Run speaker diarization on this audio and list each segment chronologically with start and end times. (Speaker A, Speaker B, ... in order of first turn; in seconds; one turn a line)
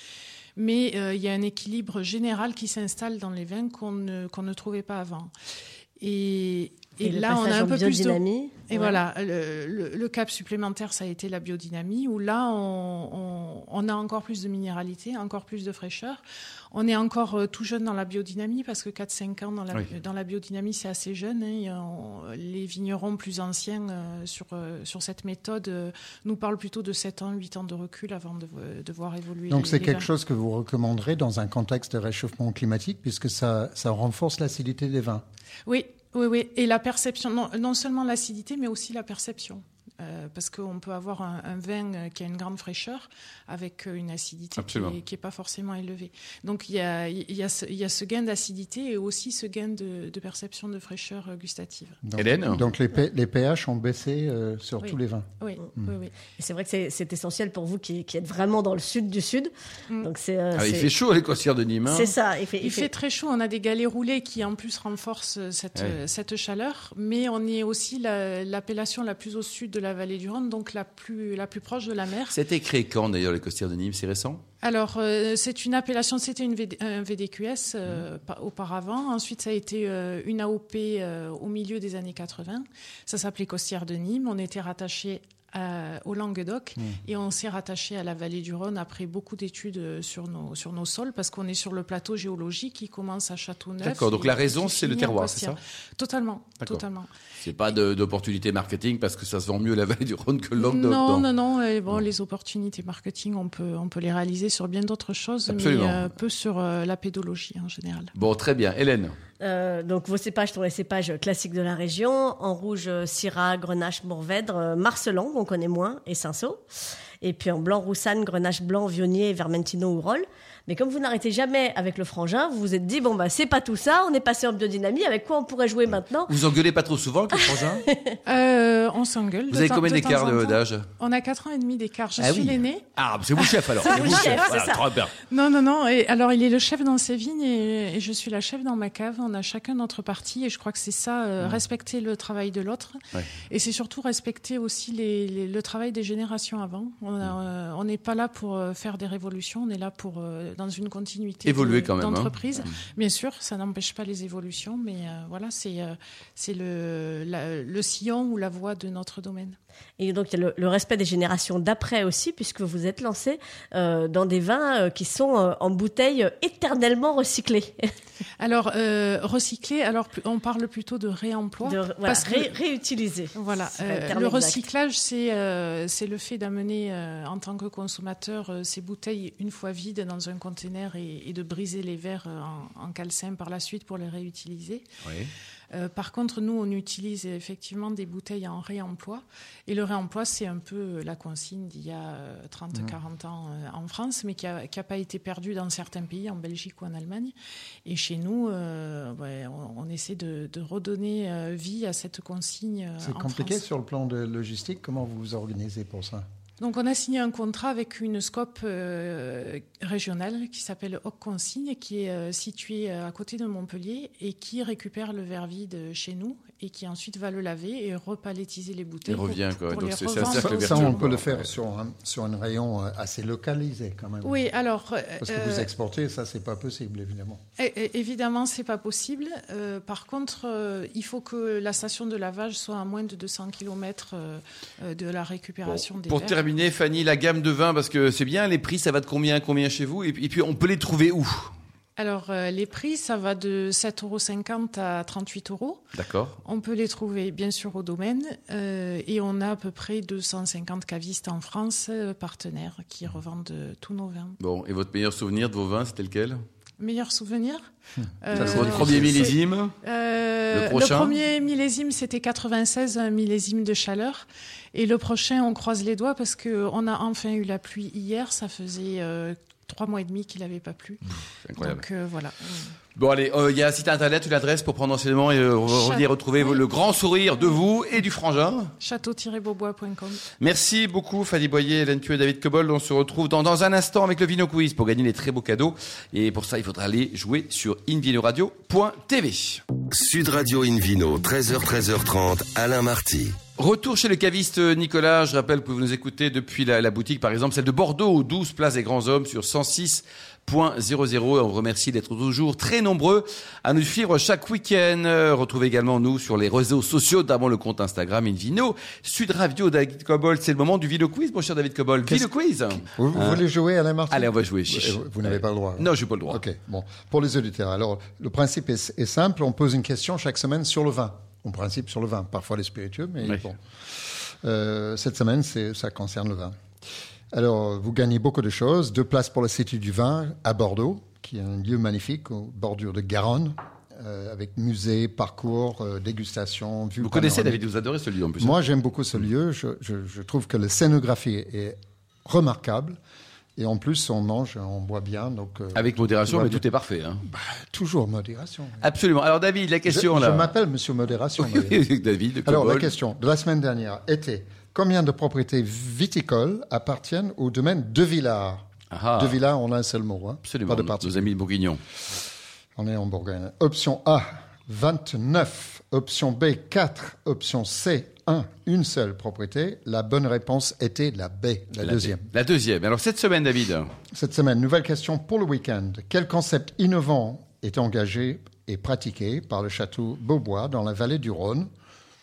Speaker A: 0.6-5.3
Speaker A: 6.0-30.1
Speaker B: 7.0-9.0
Speaker C: 29.5-35.2
Speaker A: 35.6-52.0
Speaker D: 44.6-45.0
Speaker C: 52.0-55.9
Speaker D: 52.2-52.7
Speaker A: 54.8-56.3
Speaker B: 56.4-60.9
Speaker D: 60.5-62.1
Speaker B: 61.9-62.9
Speaker A: 62.6-72.4
Speaker D: 72.3-74.4
Speaker A: 74.6-97.1
Speaker D: 93.8-95.6
Speaker D: 97.4-101.3
Speaker A: 100.6-108.1
Speaker D: 105.5-106.1
Speaker D: 108.1-109.1
Speaker B: 109.4-116.6
Speaker B: 117.2-126.3
Speaker D: 126.3-127.8
Speaker B: 127.3-128.2
Speaker A: 128.2-132.8
Speaker D: 129.5-130.9
Speaker D: 132.2-135.1
Speaker A: 133.3-134.5
Speaker B: 133.8-134.8
Speaker A: 135.2-143.0
Speaker A: 143.5-159.6
Speaker D: 151.4-152.6
Speaker B: 160.0-167.8
Speaker A: 168.4-172.6
Speaker B: 171.6-174.7
Speaker A: 173.3-184.8
Speaker D: 185.0-185.3
Speaker A: 185.7-197.3
Speaker A: 197.8-203.6
Speaker C: 203.0-206.2
Speaker A: 206.6-221.0
Speaker D: 219.1-221.5
Speaker C: 220.2-224.4
Speaker A: 224.2-225.7
Speaker C: 225.2-227.4
Speaker A: 227.6-236.5
Speaker D: 235.6-241.5
Speaker A: 242.0-245.8
Speaker D: 245.9-246.4
Speaker A: 246.4-254.4
Speaker D: 254.4-256.4
Speaker A: 256.8-257.6
Speaker A: 258.2-271.0
Speaker C: 258.3-259.3
Speaker D: 258.3-259.7
Speaker D: 260.5-261.1
Speaker D: 271.4-271.8
Speaker A: 271.6-272.7
Speaker D: 273.0-278.7
Speaker A: 275.6-276.6
Speaker A: 278.8-280.2
Speaker D: 280.4-289.6
Speaker E: 289.9-293.4
Speaker D: 293.6-313.4
Speaker C: 312.8-323.6
Speaker D: 314.1-316.4
Speaker C: 324.4-326.5
Speaker C: 327.3-337.6
Speaker D: 337.0-338.6
Speaker C: 338.4-343.0
Speaker C: 343.6-346.6
Speaker D: 345.7-347.2
Speaker C: 347.2-348.9
Speaker D: 348.8-350.5
Speaker C: 349.9-351.8
Speaker D: 351.4-352.9
Speaker C: 352.4-358.6
Speaker D: 358.9-359.4
Speaker C: 359.1-361.3
Speaker D: 360.4-361.8
Speaker C: 362.8-372.2
Speaker D: 371.8-373.9
Speaker C: 374.1-381.7